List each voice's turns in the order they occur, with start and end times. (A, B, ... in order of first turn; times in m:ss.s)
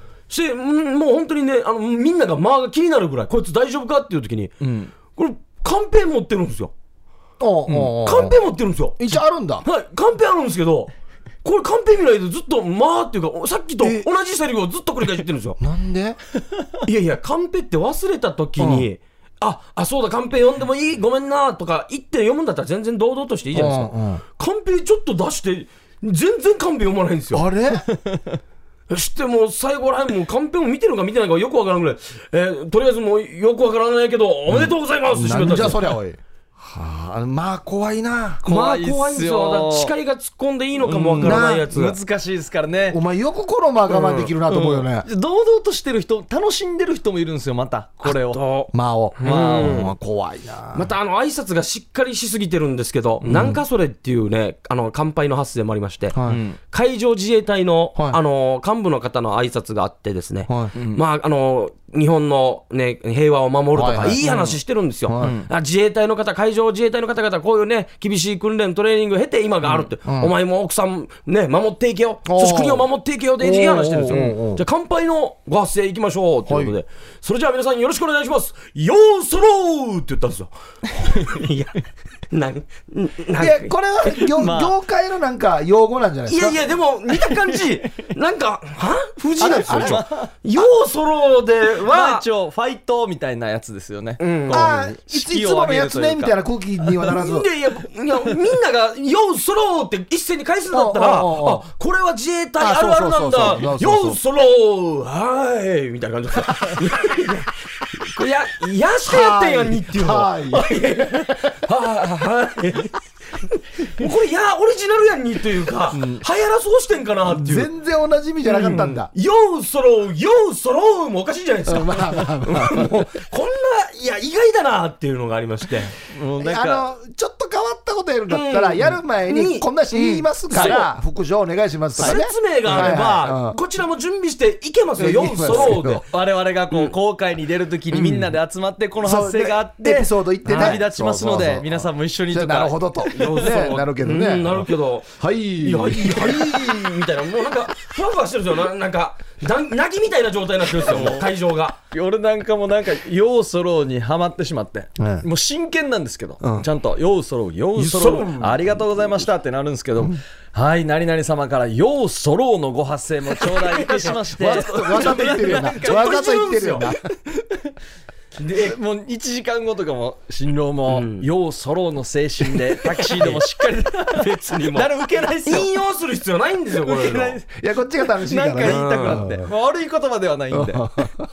0:00.3-0:04.5 A
0:04.6-0:04.9 B
0:05.2-0:06.7 A
0:07.4-0:08.4 C
0:07.7-0:07.9 B
0:08.0-0:10.9 A
0:09.0-0:09.6 C
0:11.4-0:15.6 A
0:15.6-0:16.2 C
0:16.8-0:27.4 A
0:18.6-0:18.9 C
0:23.5-0:24.2 C
0:27.3-0:27.8 C
0:27.9-0:28.4 B
0:28.9-0:35.9 A
0:34.5-0:38.4 C
0:38.4-0:39.9 B
0:38.4-0:42.0 A
0:40.8-0:43.0 B
0:41.2-0:41.7 C
0:42.9-0:45.1 C
0:43.9-0:48.4 B
0:48.0-0:49.9 A
0:48.7-0:50.9 C
0:49.2-0:49.8 B
0:50.7-1:20.5 A
0:53.2-0:53.6 C
0:56.1-0:56.4 C
0:56.2-0:56.6 B
1:00.7-1:01.0 B
1:03.7-1:04.2 C
1:04.0-1:04.6 B
1:05.1-1:05.3 C
1:05.2-1:05.5 B
1:10.1-1:10.3 C
1:12.2-1:12.9 C
1:13.4-1:14.6 C
1:16.5-1:16.8 C
1:20.9-1:21.4 B
1:21.0-1:21.8 A
1:22.3-1:24.1 A
1:23.4-1:26.6 C
1:24.4-1:24.7 B
1:26.3-1:32.2 A
1:27.1-1:28.0 B
1:29.4-1:30.0 C
1:29.4-1:30.3 B
1:31.8-1:36.4 B
1:34.2-1:34.7 A
1:34.5-1:37.5 C
1:37.0-1:57.7 A
1:40.7-1:41.6 C
1:42.6-1:44.2 C
1:49.0-1:51.0 C
1:55.9-1:56.2 B
1:57.2-1:59.1 C
1:58.6-2:05.9 A
2:01.6-2:03.1 C
2:06.1-2:06.9 B
2:06.4-2:13.6 C
2:08.3-2:10.9 A
2:12.0-2:16.1 A
2:12.7-2:12.9 B
2:15.0-2:16.0 C
2:15.5-2:23.4 B
2:16.7-2:17.0 A
2:19.0-2:26.6 C
2:20.5-2:20.8 A
2:23.1-2:31.8 A
2:30.8-2:31.2 B
2:31.9-2:46.0 B
2:35.0-2:35.3 C
2:36.4-2:36.7 C
2:37.8-2:38.6 A
2:43.4-2:46.9 A
2:44.4-2:47.0 C
2:48.4-2:48.8 A
2:48.5-2:55.7 B
2:50.9-2:51.2 A
2:52.7-2:54.9 A
2:55.4-2:57.4 A
2:56.8-2:57.4 B
2:57.5-2:59.5 C
2:58.2-3:00.9 B
2:58.6-2:59.2 A
3:00.5-3:01.2 C